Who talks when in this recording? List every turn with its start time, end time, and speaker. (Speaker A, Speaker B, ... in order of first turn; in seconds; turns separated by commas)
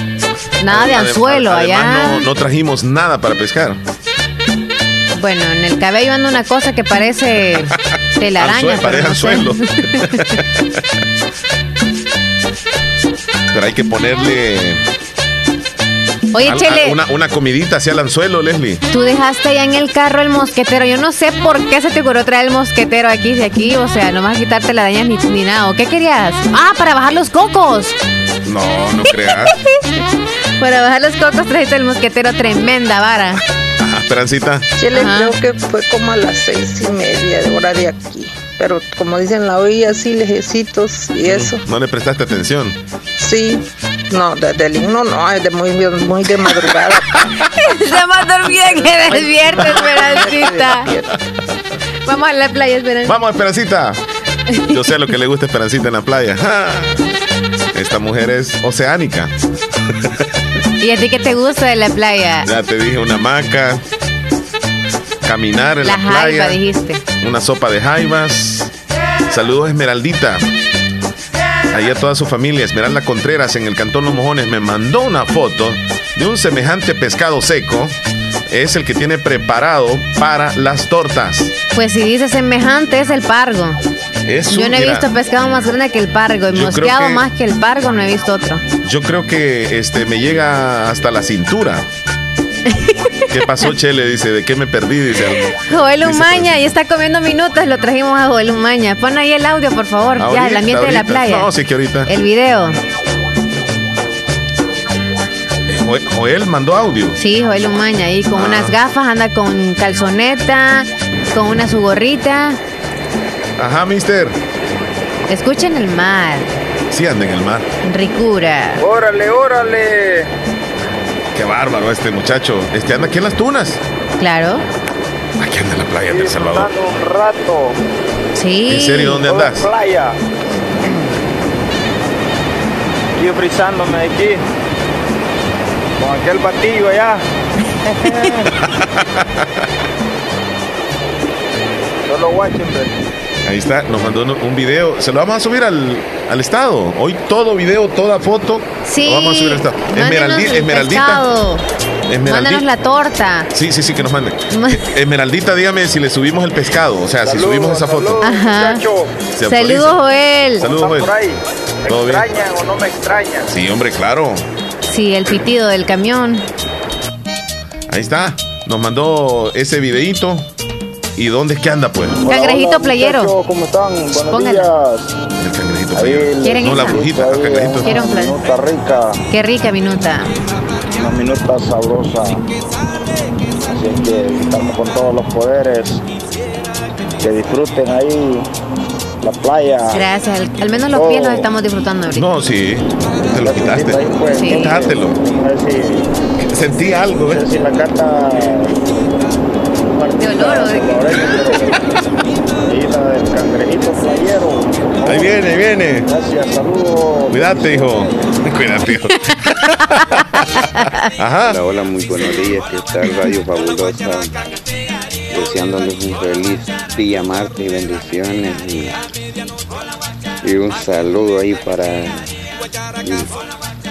Speaker A: 0.6-2.3, Speaker B: 0.7-3.8, Speaker A: 5.2-9.6, Speaker B: 8.4-10.1, Speaker B: 13.5-14.8, Speaker A: 16.3-17.0, Speaker B: 16.4-18.8, Speaker A: 18.9-28.0, Speaker B: 28.4-29.5, Speaker A: 30.6-33.4, Speaker B: 33.8-34.7, Speaker C: 34.8-41.7, Speaker A: 34.9-35.3, Speaker B: 41.2-42.8, Speaker C: 43.2-47.1, Speaker A: 47.6-50.9, Speaker C: 49.5-51.1, Speaker B: 49.7-50.2, Speaker A: 52.1-53.2, Speaker B: 53.0-54.0, Speaker A: 54.5-54.8, Speaker B: 54.7-57.0, Speaker B: 57.7-59.3, Speaker A: 60.8-62.5, Speaker B: 62.5-63.8, Speaker B: 65.2-66.6, Speaker A: 65.8-67.0, Speaker B: 67.2-68.7, Speaker B: 69.3-70.5, Speaker B: 71.7-78.0, Speaker B: 78.5-81.5, Speaker A: 81.7-83.8, Speaker B: 84.2-85.1, Speaker A: 84.5-88.7, Speaker B: 86.5-87.2, Speaker B: 88.8-91.8, Speaker A: 92.7-92.9, Speaker B: 93.3-96.5, Speaker A: 95.5-101.5, Speaker B: 100.2-102.1, Speaker A: 102.1-102.8, Speaker B: 105.7-107.2, Speaker A: 107.2-112.6, Speaker B: 108.3-108.8, Speaker B: 113.6-114.4, Speaker A: 115.3-116.6, Speaker B: 116.9-117.7, Speaker A: 117.8-118.8, Speaker D: 118.8-120.3, Speaker B: 121.3-123.8, Speaker A: 124.2-124.7, Speaker B: 125.4-126.7, Speaker D: 126.1-127.8, Speaker A: 128.4-129.2, Speaker B: 128.7-129.7, Speaker D: 129.2-130.2, Speaker D: 133.2-134.4, Speaker D: 136.0-137.2, Speaker D: 142.1-142.9, Speaker B: 143.5-151.2, Speaker A: 148.8-151.6, Speaker B: 152.1-152.7, Speaker A: 152.2-153.5, Speaker B: 153.5-158.2, Speaker A: 154.5-154.8, Speaker D: 157.2-159.3, Speaker A: 158.2-158.8, Speaker B: 159.3-160.0, Speaker A: 159.4-160.7, Speaker B: 160.6-161.1, Speaker D: 160.6-163.5, Speaker B: 161.9-162.3, Speaker B: 163.5-164.4, Speaker A: 164.9-166.5, Speaker B: 167.9-170.4, Speaker B: 171.2-172.2, Speaker D: 172.2-175.2, Speaker A: 172.3-173.3, Speaker A: 174.3-174.7, Speaker B: 175.4-177.8, Speaker D: 175.9-179.2, Speaker A: 176.4-177.1, Speaker A: 177.8-178.4, Speaker A: 179.3-180.3, Speaker D: 180.9-182.4, Speaker D: 183.7-186.0, Speaker D: 187.2-188.5, Speaker D: 189.2-190.1, Speaker A: 189.9-192.3, Speaker D: 190.9-191.5, Speaker B: 192.2-194.0, Speaker D: 193.4-196.1, Speaker A: 194.3-194.8, Speaker B: 194.6-195.2, Speaker B: 196.5-197.4, Speaker D: 197.2-198.8, Speaker D: 199.9-201.8, Speaker A: 200.2-201.2, Speaker D: 202.7-205.4, Speaker B: 205.1-206.1, Speaker D: 206.1-208.1, Speaker B: 207.3-209.1, Speaker B: 211.2-211.6, Speaker E: 211.5-214.4, Speaker E: 215.3-218.9, Speaker E: 220.4-222.4, Speaker E: 223.0-223.3